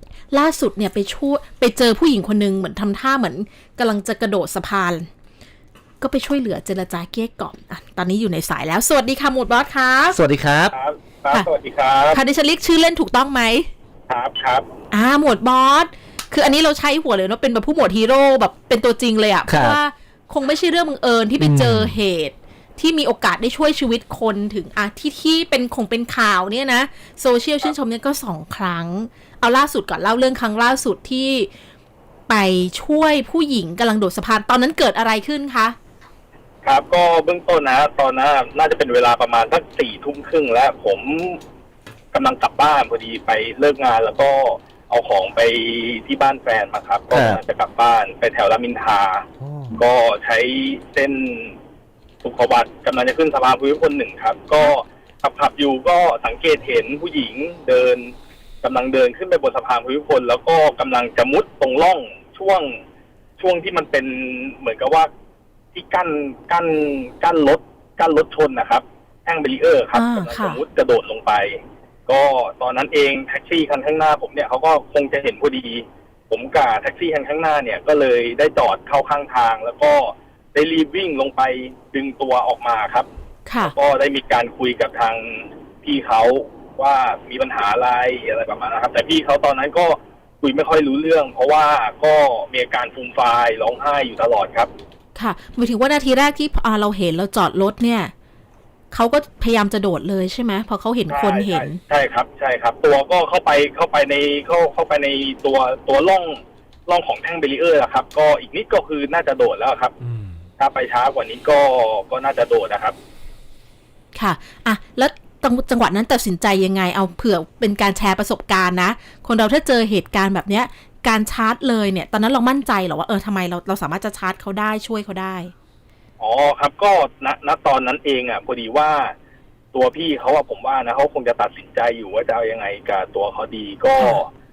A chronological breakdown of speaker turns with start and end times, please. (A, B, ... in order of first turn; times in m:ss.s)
0:00.3-0:05.1 A
0:06.0-0:10.2 A
0:10.1-0:10.8 B
0:10.7-0:12.2 C
0:12.1-0:13.7 A
0:14.1-0:14.7 C
0:14.9-0:31.5 A
0:19.5-0:19.8 B
0:21.4-0:22.0 B
0:32.3-0:35.8 A
0:36.6-0:41.4 C
0:42.1-0:51.6 C
0:47.1-0:47.4 B
0:49.4-0:49.8 B
0:52.2-1:02.8 C
1:03.4-1:05.1 C
1:05.7-1:23.1 C
1:09.9-1:10.6 A
1:23.5-1:23.7 A
1:23.6-1:34.7 C
1:35.2-1:38.1 A
1:38.9-1:41.8 A
1:41.1-1:49.9 C
1:50.0-1:50.4 B
1:50.6-1:53.0 C
1:54.2-2:05.5 A
2:06.2-2:09.1 C
2:09.7-2:14.3 C